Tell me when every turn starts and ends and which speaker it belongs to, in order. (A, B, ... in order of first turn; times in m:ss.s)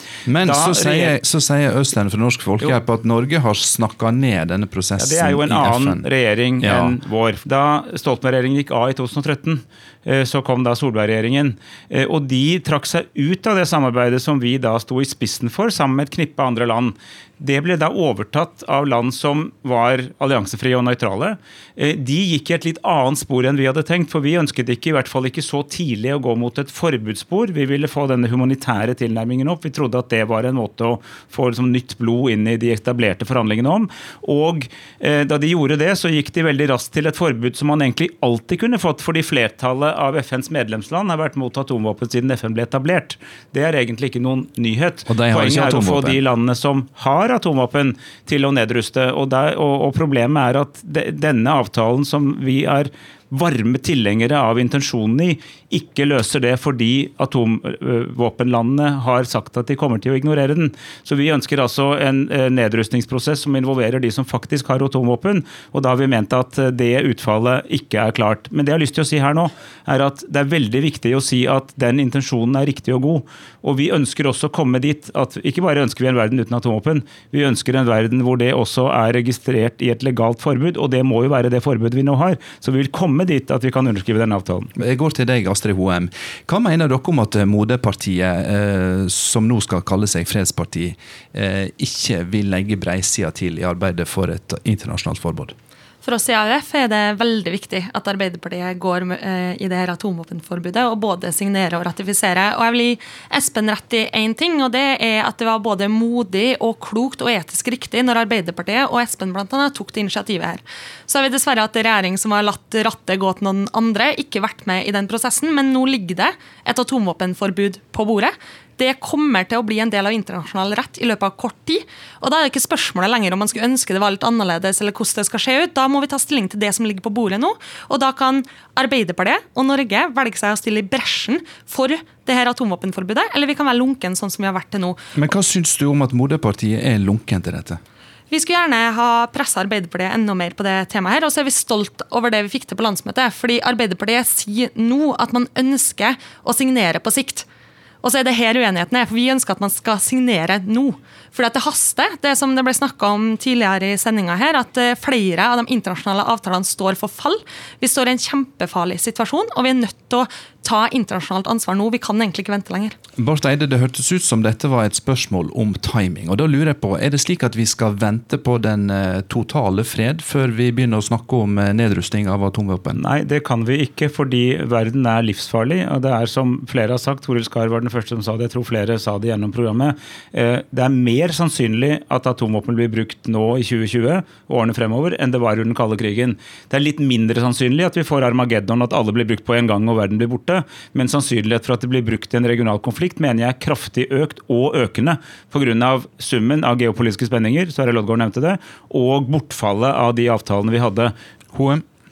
0:00.3-0:06.1 A
0:00.4-0:01.2 B
0:05.0-1:24.7 B
0:06.6-0:07.0 A
0:45.0-0:46.2 A
1:24.8-1:35.5 A
1:36.0-2:15.0 C
2:15.1-2:17.8 A
2:18.3-2:27.4 C
2:28.0-2:42.9 C
2:43.2-2:53.0 A
2:52.9-3:21.1 B
3:21.5-3:21.8 A